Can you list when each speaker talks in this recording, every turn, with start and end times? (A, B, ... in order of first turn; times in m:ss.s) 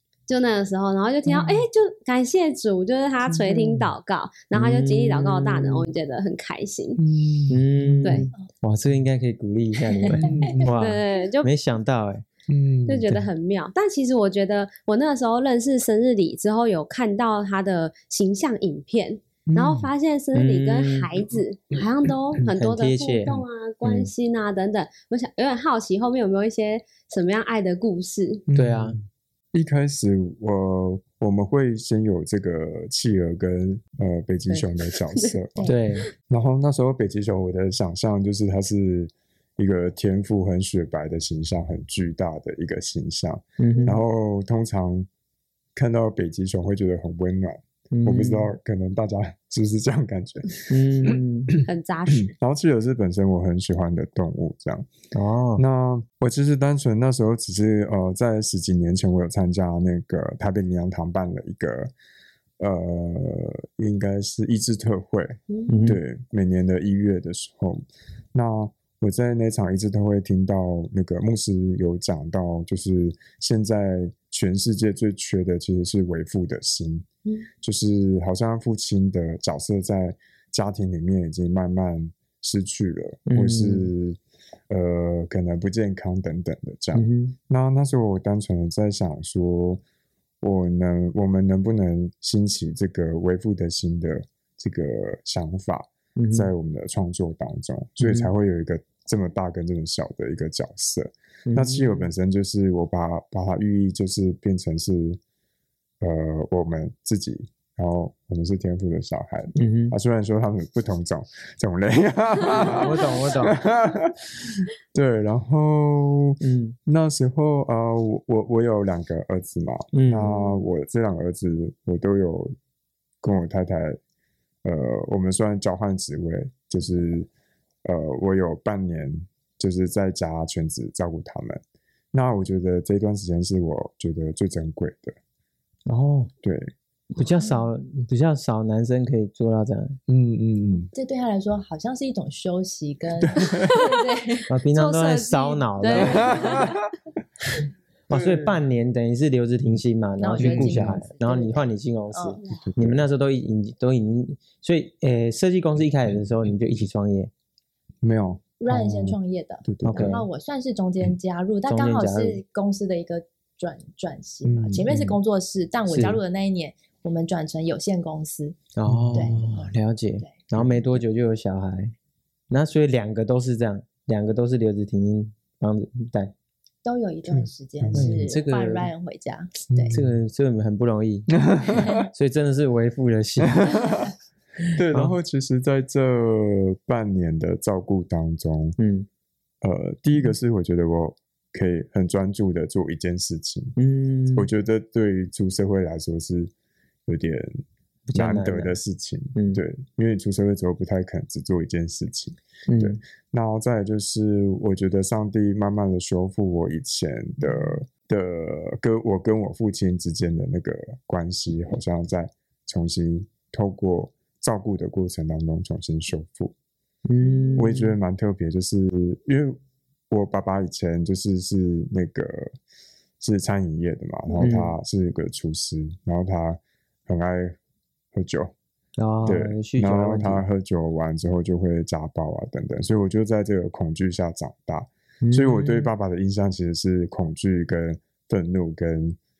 0:00.3-0:07.0 A
0:03.3-0:03.9 B
0:04.5-0:05.9 C
0:07.0-0:08.1 B
0:07.5-0:12.2 C
0:08.0-0:08.3 A
0:10.1-0:10.4 D
0:10.1-0:10.7 B
0:10.5-0:11.5 A
0:12.5-0:13.3 B
0:12.9-0:28.4 A
0:19.5-0:19.9 B
0:20.3-0:21.1 C
0:22.5-0:23.4 C
0:28.5-0:35.7 B
0:28.5-0:29.0 C
0:34.5-0:35.4 A
0:35.6-0:36.1 C
0:36.3-0:45.1 B
0:43.6-0:44.0 C
0:45.7-0:51.6 B
0:47.9-0:48.5 C
0:50.7-0:51.6 C
0:51.6-0:52.3 A
0:52.2-0:54.9 B
0:55.1-0:55.6 C
0:55.6-1:01.9 B
1:02.6-1:17.1 B
1:05.7-1:06.0 C
1:17.6-1:24.2 B
1:23.3-1:23.9 C
1:24.7-1:29.8 B
1:26.9-1:27.3 C
1:30.4-1:45.2 B
1:36.2-1:36.5 C
1:38.0-1:38.3 C
1:41.5-1:42.1 C
1:46.0-2:02.5 B
1:49.6-1:49.9 C
1:52.6-1:53.6 C
1:56.4-1:56.8 C
1:59.9-2:00.6 C
2:03.2-2:04.0 B
2:04.6-2:07.3 B
2:07.8-2:11.6 B
2:12.1-2:15.2 B
2:15.9-2:16.3 C
2:16.4-2:16.7 B
2:17.1-2:20.0 C
2:20.1-2:20.9 B
2:20.9-2:24.5 D
2:23.2-2:23.9 B
2:24.5-2:26.6 C
2:24.7-2:26.6 A
2:25.9-2:26.7 D
2:26.2-2:26.9 B
2:28.1-2:37.3 C
2:28.1-2:28.6 B
2:30.2-2:32.4 D
2:30.4-2:31.0 B
2:32.6-2:33.0 B
2:38.0-2:40.2 B
2:38.6-2:48.6 D
2:39.8-2:40.2 C
2:41.6-2:42.4 C
2:44.4-2:45.1 B
2:45.9-2:46.2 C
2:48.7-2:51.9 C
2:48.9-2:49.4 B
2:49.1-2:50.3 D
2:52.5-2:56.3 C
2:56.8-2:59.9 D
2:57.3-2:58.3 B
2:57.9-2:58.9 C
2:59.7-3:00.1 B
2:59.9-3:01.4 C
3:01.4-3:02.1 B
3:01.7-3:02.0 D
3:02.0-3:03.8 C
3:03.5-3:04.1 B
3:04.7-3:08.8 B
3:04.9-3:05.2 C
3:08.8-3:09.1 C
3:09.6-3:13.7 B
3:13.8-3:14.5 C
3:14.3-3:16.5 B
3:17.1-3:17.6 B
3:18.1-3:18.8 C
3:18.1-3:36.5 B
3:19.3-3:19.6 C
3:22.7-3:23.0 C
3:37.1-3:38.0 C
3:37.6-3:39.6 B
3:40.1-3:42.6 B
3:43.2-3:47.6 B
3:44.4-3:44.7 C
3:48.1-3:48.5 B
3:49.0-3:50.4 C
3:49.2-3:59.2 B
3:55.2-3:55.9 C